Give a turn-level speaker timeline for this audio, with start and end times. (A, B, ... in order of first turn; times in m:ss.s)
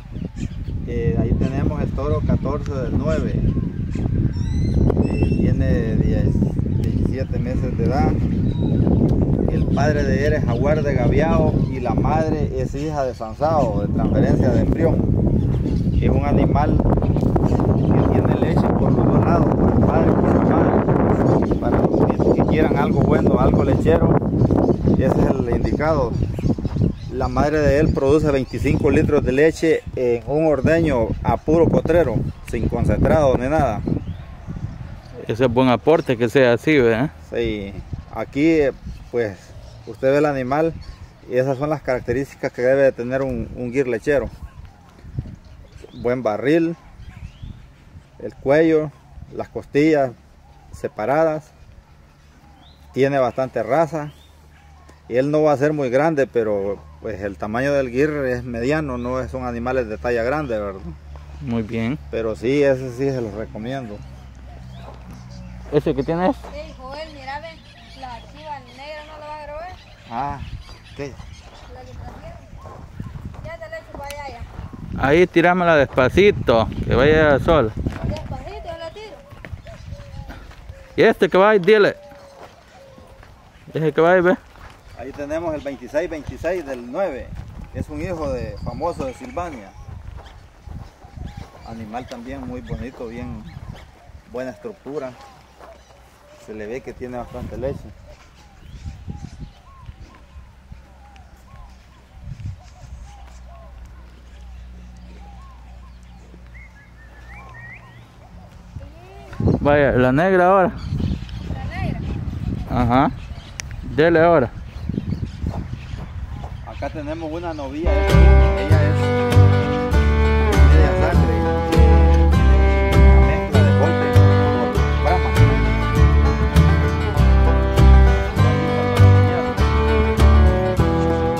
0:00.8-0:03.5 A
0:05.0-0:08.2 A
0:09.5-0:15.1 A
0:16.0-0:16.9 A
0:17.9-0:20.9 A
0:21.6-0:24.2 A
0:25.0-0:26.2 A
0:27.1-0:33.8 A
0:35.2-0:37.1 B
0:37.2-0:44.3 A
0:45.9-0:46.8 A
0:48.2-0:50.2 A
0:50.7-0:51.5 A
0:52.9-0:54.1 A
0:55.1-1:01.0 A
1:01.4-1:02.0 B
1:02.1-1:04.0 A
1:05.7-1:06.4 B
1:06.5-1:09.8 C
1:10.1-1:11.2 A
1:11.7-1:12.5 C
1:13.4-1:14.5 C
1:15.0-1:17.7 B
1:18.0-1:19.2 C
1:21.0-1:22.0 B
1:23.7-1:24.4 B
1:24.9-1:29.8 A
1:31.6-1:33.6 A
1:34.3-1:35.2 A
1:36.4-1:37.9 A
1:49.5-1:50.8 B
1:51.5-1:52.0 C
1:52.7-1:53.1 B
1:53.8-1:54.5 B
1:56.6-1:59.1 A
2:00.5-2:05.5 A
2:08.2-2:09.7 A